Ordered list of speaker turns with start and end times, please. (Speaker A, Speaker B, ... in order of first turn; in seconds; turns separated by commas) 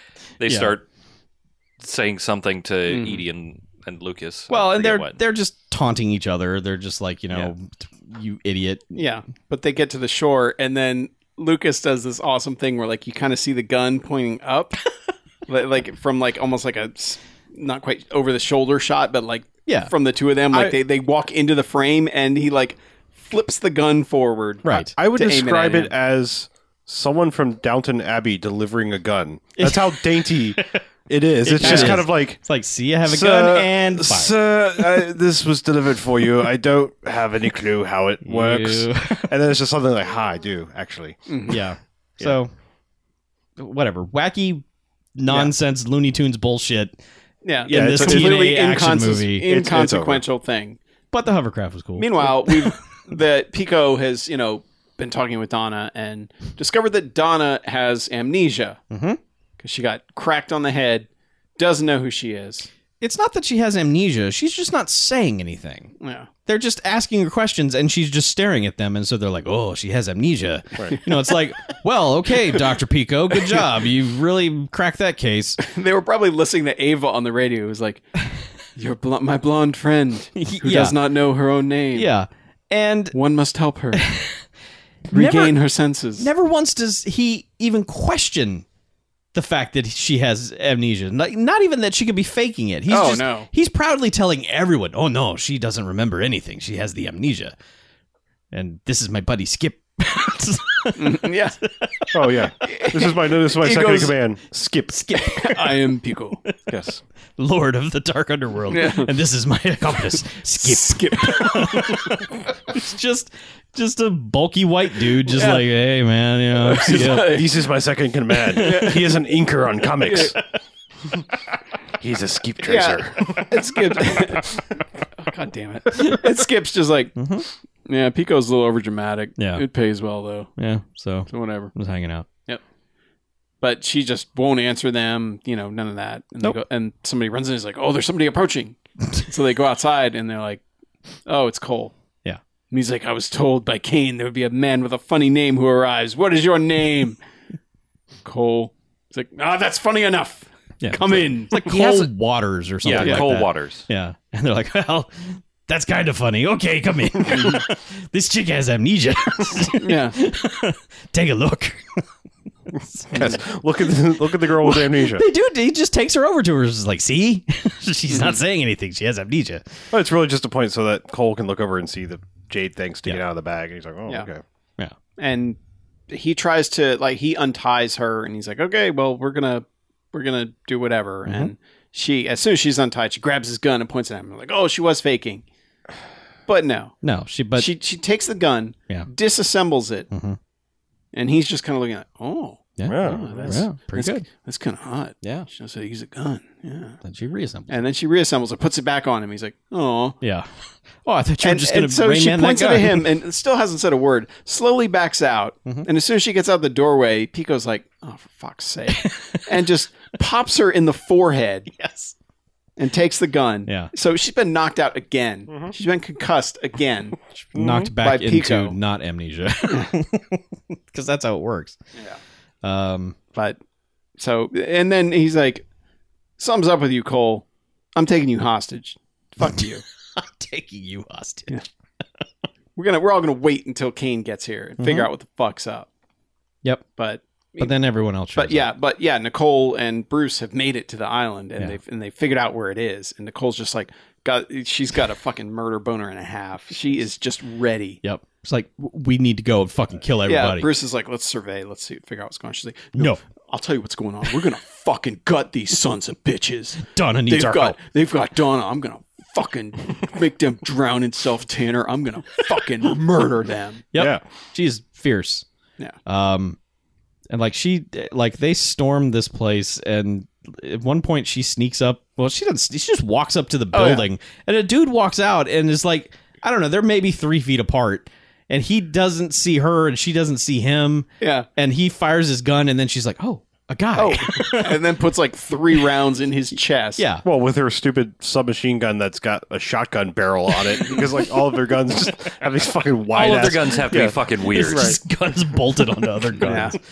Speaker A: 0.4-0.8, Speaker B: 0.5-0.7, Speaker A: 1.8-5.1, Speaker C: 2.9-3.2, Speaker B: 4.5-9.0, Speaker C: 8.9-14.9, Speaker C: 15.5-25.9, Speaker B: 19.7-19.9, Speaker D: 20.5-20.8, Speaker B: 24.6-24.9, Speaker D: 24.7-32.4, Speaker B: 29.6-30.8, Speaker B: 31.4-34.4, Speaker C: 31.6-32.0, Speaker D: 33.0-41.2, Speaker B: 38.2-39.3, Speaker C: 41.3-41.6, Speaker B: 41.5-42.5, Speaker B: 43.6-44.6, Speaker B: 45.2-47.0, Speaker C: 47.4-50.8, Speaker D: 47.7-48.6, Speaker B: 47.7-49.5, Speaker D: 49.4-50.2, Speaker B: 51.1-52.7, Speaker C: 52.0-58.8, Speaker B: 58.9-59.2, Speaker C: 59.6-62.7, Speaker B: 63.0-65.9, Speaker C: 66.0-66.3, Speaker B: 66.5-75.6, Speaker C: 75.6-78.1, Speaker C: 78.8-82.1, Speaker B: 80.4-81.0, Speaker B: 81.9-83.2, Speaker C: 83.1-84.1, Speaker B: 83.9-84.4, Speaker C: 85.1-86.3, Speaker B: 85.1-85.5, Speaker B: 86.2-88.7, Speaker B: 89.3-97.5, Speaker C: 92.9-93.5, Speaker B: 98.5-101.3, Speaker C: 101.0-101.6, Speaker B: 101.8-102.1, Speaker D: 102.1-105.0, Speaker C: 102.7-104.1, Speaker B: 104.9-105.8, Speaker C: 105.2-106.4, Speaker D: 106.7-107.0, Speaker B: 107.4-117.4, Speaker C: 108.7-109.1, Speaker C: 110.6-112.1, Speaker C: 115.3-115.7, Speaker C: 116.6-117.5, Speaker D: 116.8-120.4, Speaker B: 118.5-119.0, Speaker C: 118.6-119.1, Speaker C: 120.0-120.3, Speaker D: 122.0-123.5, Speaker C: 122.6-124.6, Speaker C: 125.2-127.2, Speaker B: 127.2-127.5, Speaker C: 127.9-130.5, Speaker B: 129.4-129.7, Speaker B: 130.6-132.3, Speaker C: 131.3-131.7, Speaker C: 133.6-140.6, Speaker C: 141.3-141.9, Speaker C: 142.7-147.2, Speaker C: 148.2-151.6, Speaker B: 150.8-162.1, Speaker A: 151.6-152.1, Speaker A: 152.8-153.9, Speaker C: 153.0-153.2, Speaker C: 157.3-157.6, Speaker C: 159.8-160.2, Speaker B: 162.7-163.2, Speaker D: 163.1-165.2, Speaker B: 164.6-169.6, Speaker C: 168.1-168.4, Speaker D: 169.9-174.4, Speaker C: 175.2-175.6, Speaker C: 176.1-185.4, Speaker B: 181.3-181.5, Speaker C: 186.5-187.0, Speaker B: 187.0-187.7, Speaker C: 187.6-190.1, Speaker B: 190.1-190.4, Speaker C: 191.1-197.0, Speaker B: 192.8-194.3, Speaker D: 192.9-193.7, Speaker B: 195.2-195.5, Speaker B: 197.0-197.7, Speaker C: 197.7-200.2, Speaker B: 200.2-200.5, Speaker B: 201.1-203.1, Speaker C: 201.4-211.7, Speaker B: 209.0-209.4, Speaker B: 211.7-212.1, Speaker C: 212.8-217.2, Speaker D: 217.5-217.9, Speaker B: 217.5-221.8, Speaker C: 218.0-218.8, Speaker B: 222.6-223.2, Speaker C: 224.2-225.7, Speaker C: 226.4-229.8, Speaker B: 230.2-231.6, Speaker C: 232.8-235.9, Speaker B: 234.8-235.1, Speaker C: 237.0-237.7, Speaker B: 237.6-238.7, Speaker C: 238.3-248.0, Speaker B: 248.0-250.7, Speaker C: 250.2-263.8, Speaker B: 253.0-253.2, Speaker B: 256.8-257.8, Speaker B: 263.9-265.4, Speaker D: 264.0-264.2, Speaker B: 266.1-266.6, Speaker B: 267.3-284.8, Speaker C: 273.7-274.1, Speaker C: 281.2-281.5, Speaker C: 283.9-287.0, Speaker B: 287.0-287.2, Speaker D: 287.2-295.0, Speaker A: 293.1-295.0, Speaker B: 294.5-296.8, Speaker C: 296.4-296.8